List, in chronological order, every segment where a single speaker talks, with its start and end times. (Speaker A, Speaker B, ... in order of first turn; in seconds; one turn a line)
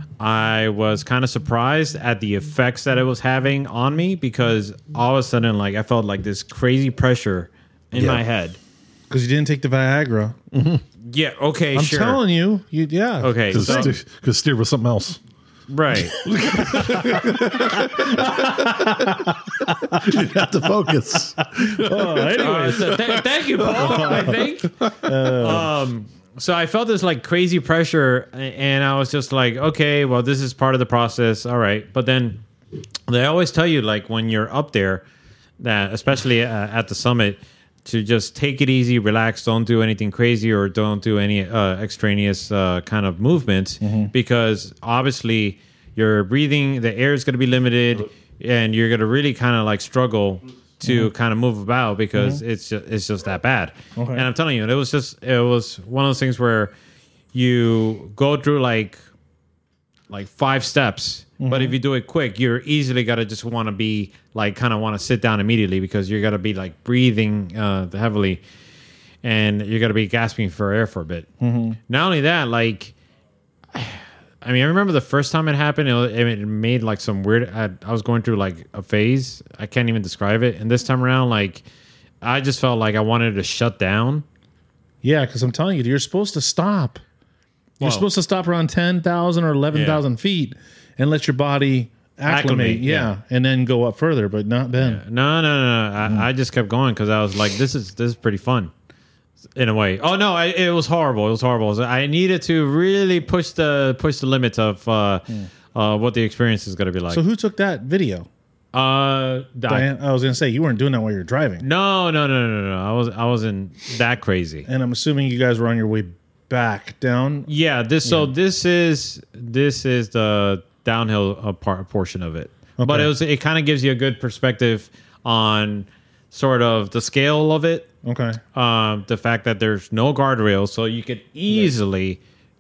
Speaker A: 0.2-8.6
Speaker B: 9.1-10.4
Speaker C: 10.5-10.8
Speaker A: 11.1-12.2
Speaker B: 11.8-13.9
Speaker A: 13.2-13.9
Speaker C: 13.5-15.2
Speaker A: 15.7-16.3
Speaker C: 16.2-25.2
Speaker B: 16.6-20.2
Speaker B: 21.6-23.0
Speaker A: 22.4-32.4
Speaker B: 23.8-24.4
Speaker B: 25.0-25.7
Speaker A: 33.1-35.0
Speaker A: 35.6-56.7
Speaker B: 43.8-44.1
Speaker B: 50.8-51.1
Speaker B: 52.1-52.4
Speaker B: 54.0-54.3
Speaker A: 57.3-59.0
Speaker A: 60.1-68.4
Speaker B: 61.4-61.8
Speaker A: 69.2-71.3
Speaker B: 71.4-71.8
Speaker A: 71.9-73.0
Speaker A: 73.7-81.6
Speaker A: 82.2-84.2
Speaker B: 85.0-87.0
Speaker A: 87.8-88.1
Speaker B: 87.8-95.0
Speaker A: 89.7-90.0
Speaker A: 92.3-93.1
Speaker A: 94.8-98.7
Speaker A: 99.6-107.2
Speaker B: 107.1-108.3
Speaker A: 108.7-109.9
Speaker B: 109.7-111.6
Speaker A: 111.6-114.7
Speaker B: 114.7-117.5
Speaker A: 117.5-127.9
Speaker B: 118.0-118.3
Speaker B: 122.8-123.1
Speaker B: 128.0-128.4
Speaker A: 128.5-132.2